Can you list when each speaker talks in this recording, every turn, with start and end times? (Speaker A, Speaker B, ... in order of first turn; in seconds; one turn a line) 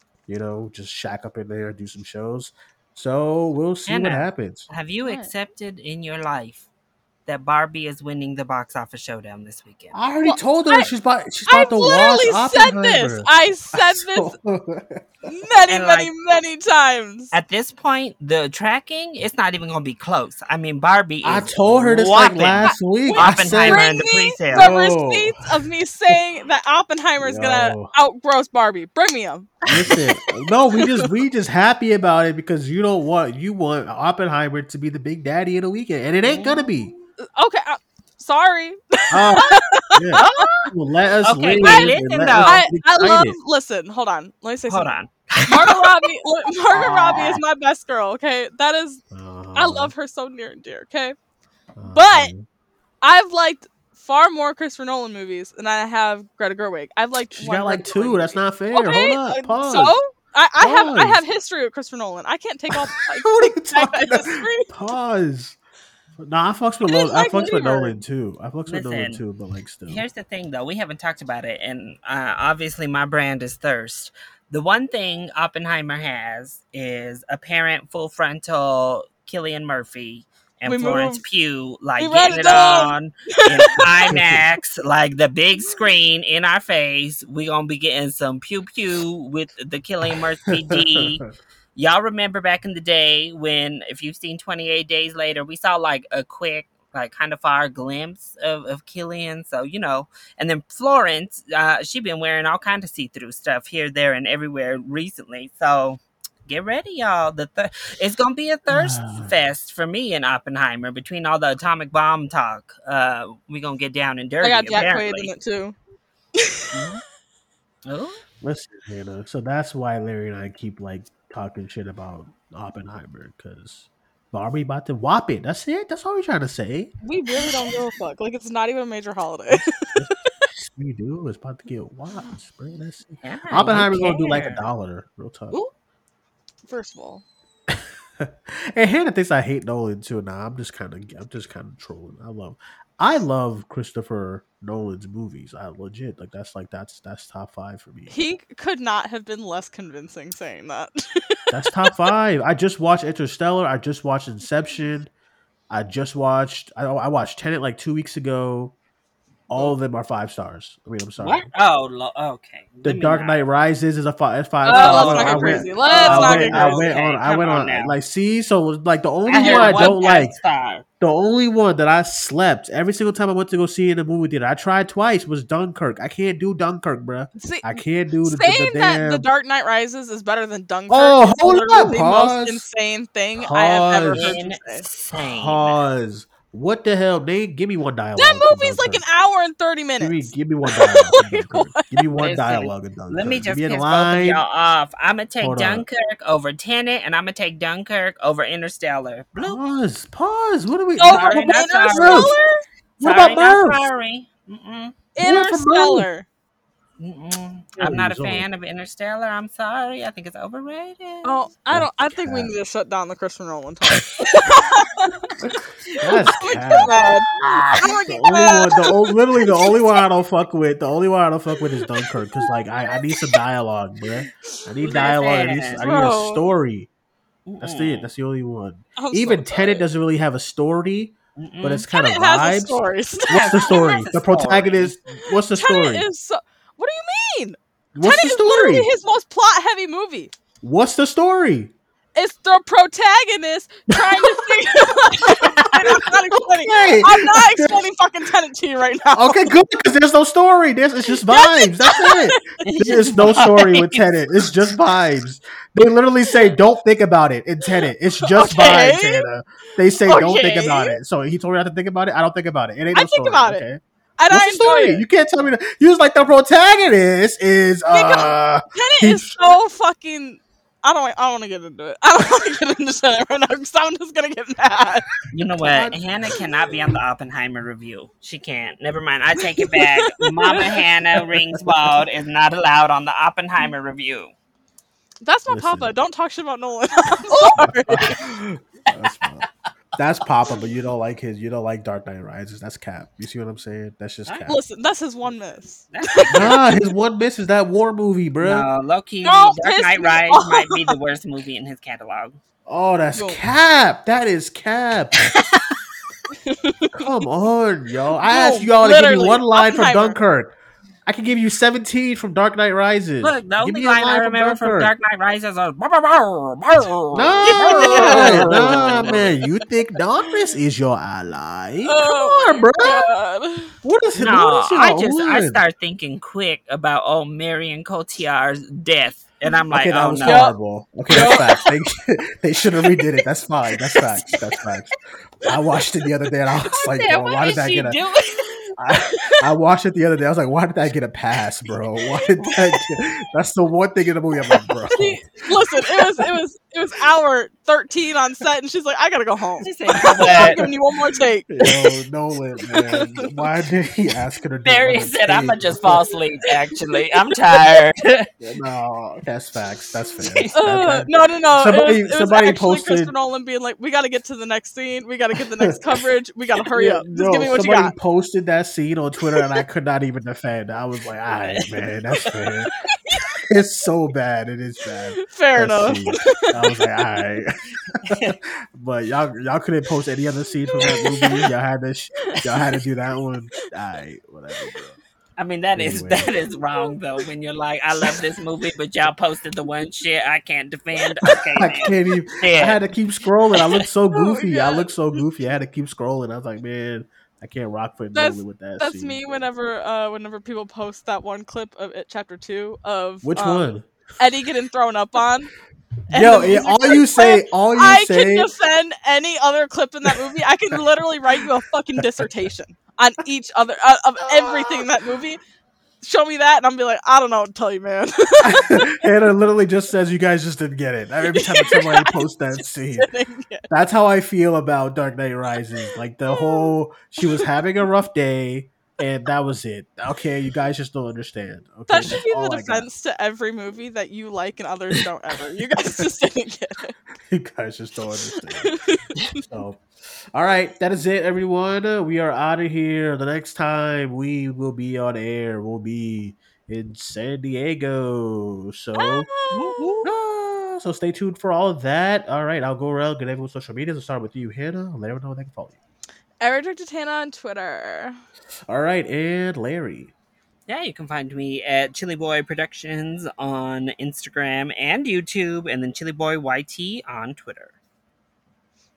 Speaker A: 0.3-4.7
Speaker B: 3.9-6.7
Speaker C: 5.0-5.3
Speaker B: 7.3-10.0
Speaker A: 9.9-15.1
Speaker C: 10.3-10.9
Speaker C: 11.5-14.3
Speaker C: 15.2-17.3
Speaker B: 15.7-16.1
Speaker B: 17.3-24.8
Speaker A: 21.2-23.9
Speaker C: 22.6-29.7
Speaker A: 24.5-25.5
Speaker A: 27.2-27.9
Speaker A: 29.6-36.9
Speaker C: 30.7-31.1
Speaker B: 36.2-37.0
Speaker C: 37.3-40.5
Speaker A: 39.1-43.4
Speaker B: 40.2-40.7
Speaker B: 41.2-42.7
Speaker C: 41.6-45.0
Speaker B: 44.7-45.8
Speaker C: 45.5-49.0
Speaker B: 46.7-47.4
Speaker A: 49.1-49.9
Speaker C: 49.5-51.2
Speaker A: 51.8-52.5
Speaker C: 51.9-52.3
Speaker C: 53.0-64.7
Speaker A: 57.3-60.0
Speaker A: 60.6-61.2
Speaker A: 62.8-65.6
Speaker A: 66.2-70.0
Speaker C: 66.9-68.0
Speaker B: 68.7-69.2
Speaker B: 69.9-115.3
Speaker C: 80.7-81.2
Speaker C: 82.0-83.5
Speaker A: 83.8-84.5
Speaker A: 90.5-91.3
Speaker A: 108.7-109.3
Speaker C: 114.4-115.8
Speaker C: 116.4-116.7
Speaker B: 116.7-117.0
Speaker B: 117.9-118.2
Speaker A: 118.4-126.9
Speaker C: 127.0-130.5
Speaker A: 129.5-135.6
Speaker B: 133.2-134.7
Speaker C: 136.7-137.2
Speaker A: 137.7-148.1
Speaker C: 148.1-151.4
Speaker A: 151.5-155.1
Speaker A: 155.7-158.8
Speaker A: 159.5-161.5
Speaker B: 161.2-163.4
Speaker A: 162.8-170.3
Speaker C: 164.6-166.9
Speaker B: 164.7-168.0
Speaker B: 169.3-170.8
Speaker C: 169.3-170.0
Speaker A: 171.0-179.3
Speaker C: 177.4-184.8
Speaker A: 180.9-182.7
Speaker A: 183.3-184.4
Speaker B: 184.0-185.8
Speaker A: 185.1-189.0
Speaker C: 188.2-192.0
Speaker A: 190.0-194.4
Speaker B: 192.2-199.6
Speaker A: 195.4-195.9
Speaker A: 199.3-202.4
Speaker C: 201.0-202.6
Speaker B: 201.0-202.4
Speaker A: 203.0-203.9
Speaker B: 203.0-205.0
Speaker C: 205.2-206.3
Speaker A: 205.2-206.1
Speaker B: 207.0-211.4
Speaker A: 207.8-208.5
Speaker C: 211.2-215.3
Speaker A: 211.7-212.5
Speaker A: 215.5-216.9
Speaker C: 216.1-217.3
Speaker B: 216.3-217.8
Speaker C: 217.8-220.0
Speaker A: 217.8-226.9
Speaker B: 224.8-225.8
Speaker C: 225.8-226.5
Speaker B: 227.5-228.1
Speaker A: 227.6-236.1
Speaker C: 229.0-229.9
Speaker B: 231.4-231.9
Speaker C: 231.9-234.0
Speaker B: 233.3-234.9
Speaker C: 235.2-240.3
Speaker A: 237.9-238.9
Speaker A: 240.6-241.7
Speaker C: 242.2-249.5
Speaker A: 243.9-244.3
Speaker A: 246.0-247.8
Speaker A: 249.1-269.5
Speaker C: 251.3-252.3
Speaker B: 252.6-254.6
Speaker C: 257.7-259.3
Speaker C: 260.1-261.0
Speaker C: 262.9-263.6
Speaker C: 264.2-265.0
Speaker C: 267.9-275.1
Speaker B: 275.3-284.3
Speaker A: 275.6-277.0
Speaker C: 279.6-280.7
Speaker C: 285.2-288.3
Speaker A: 285.5-285.9
Speaker A: 287.3-294.6
Speaker C: 294.4-296.5
Speaker B: 295.9-296.6
Speaker A: 296.3-298.7
Speaker B: 298.4-302.4
Speaker C: 299.2-300.9
Speaker A: 302.7-305.3
Speaker C: 303.1-303.4
Speaker B: 305.3-305.8
Speaker C: 306.3-307.1
Speaker A: 306.9-310.5
Speaker C: 308.3-310.2
Speaker A: 311.1-314.9
Speaker B: 313.2-319.4
Speaker A: 317.1-323.1
Speaker C: 317.5-319.3
Speaker C: 321.9-323.8
Speaker A: 323.8-325.6
Speaker B: 324.2-330.5
Speaker A: 329.7-338.0
Speaker C: 330.2-330.6
Speaker C: 331.1-331.6
Speaker B: 331.1-331.5
Speaker B: 336.7-338.7
Speaker A: 338.8-345.2
Speaker C: 344.9-351.5
Speaker B: 349.6-350.7
Speaker A: 350.2-350.7
Speaker A: 351.5-356.1
Speaker C: 352.8-353.3
Speaker B: 354.6-358.3
Speaker A: 358.4-363.1
Speaker B: 360.2-360.5
Speaker C: 360.6-367.9
Speaker A: 366.7-372.7
Speaker C: 372.9-373.3
Speaker A: 373.4-385.0
Speaker C: 375.2-376.5
Speaker B: 378.0-378.4
Speaker C: 380.8-381.4
Speaker C: 382.3-382.8
Speaker B: 385.4-392.9
Speaker A: 385.8-386.3
Speaker A: 391.6-399.4
Speaker B: 393.6-393.9
Speaker C: 394.1-394.9
Speaker C: 398.1-405.5
Speaker A: 403.2-403.9
Speaker C: 406.1-415.4
Speaker A: 406.1-408.5
Speaker A: 414.4-414.8
Speaker C: 416.0-419.0
Speaker A: 418.4-423.1
Speaker C: 421.3-423.6
Speaker A: 423.7-432.9
Speaker C: 425.8-427.5
Speaker C: 431.9-437.0
Speaker A: 437.2-438.7
Speaker C: 438.3-439.4
Speaker A: 439.4-439.8
Speaker A: 440.3-449.3
Speaker C: 449.0-449.8
Speaker B: 449.5-450.1
Speaker A: 450.0-455.8
Speaker C: 456.4-458.2
Speaker A: 458.7-460.1
Speaker B: 460.7-467.8